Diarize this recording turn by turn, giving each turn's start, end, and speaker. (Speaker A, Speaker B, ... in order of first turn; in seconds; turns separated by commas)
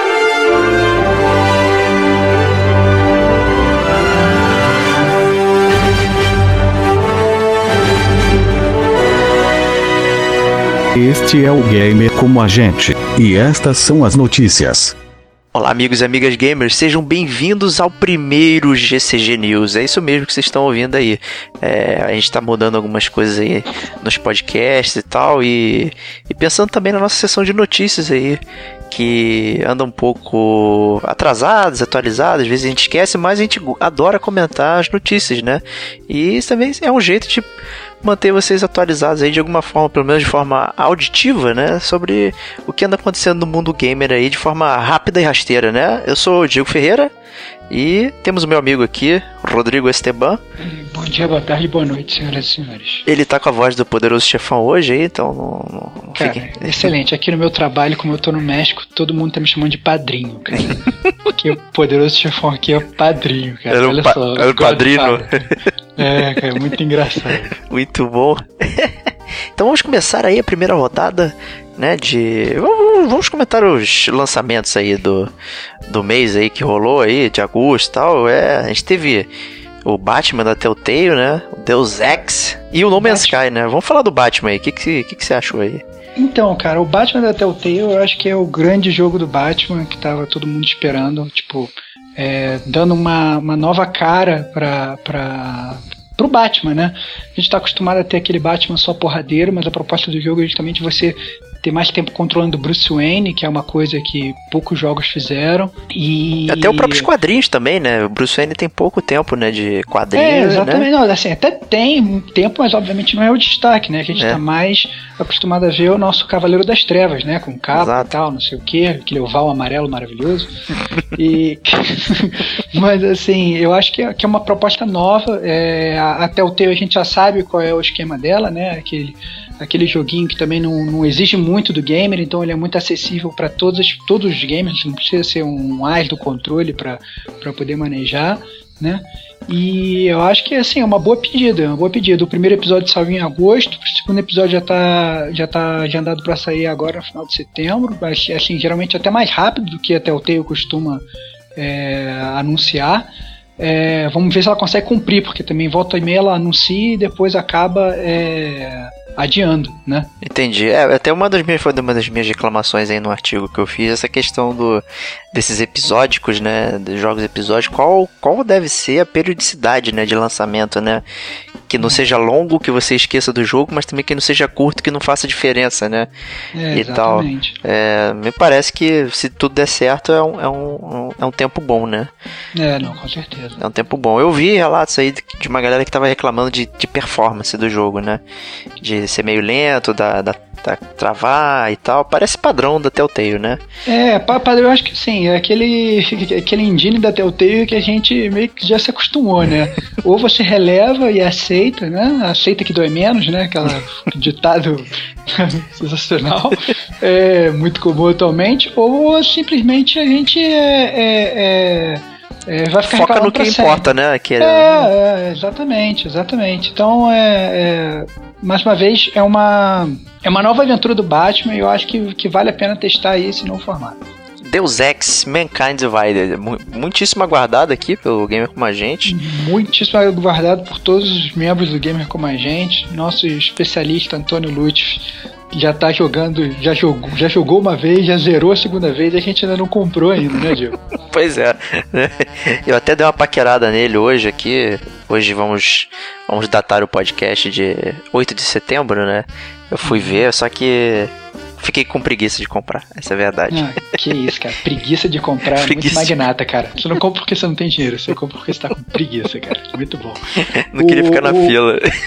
Speaker A: 10.9-14.9, Speaker B: 15.5-37.5, Speaker B: 38.0-47.1, Speaker B: 47.7-50.4, Speaker C: 50.6-53.0, Speaker B: 53.0-56.9, Speaker C: 56.1-67.5, Speaker B: 63.7-66.5, Speaker B: 67.6-69.0, Speaker B: 69.5-75.3, Speaker B: 75.9-79.3, Speaker B: 79.8-85.8, Speaker C: 83.0-83.4, Speaker C: 86.2-107.1, Speaker B: 106.5-110.9, Speaker C: 110.1-120.5, Speaker B: 114.1-114.4, Speaker B: 117.7-118.1, Speaker C: 121.1-160.1, Speaker B: 160.2-164.8, Speaker B: 165.3-171.0, Speaker B: 171.7-176.1, Speaker C: 176.5-177.6, Speaker B: 176.7-182.1, Speaker C: 182.5-183.6, Speaker B: 183.6-188.2, Speaker B: 188.8-193.6, Speaker C: 193.9-224.0, Speaker B: 212.8-214.9, Speaker B: 224.4-229.2, Speaker C: 229.1-240.8, Speaker B: 240.9-253.9, Speaker C: 249.8-250.2, Speaker C: 253.5-261.6, Speaker B: 255.5-256.2, Speaker B: 260.6-261.9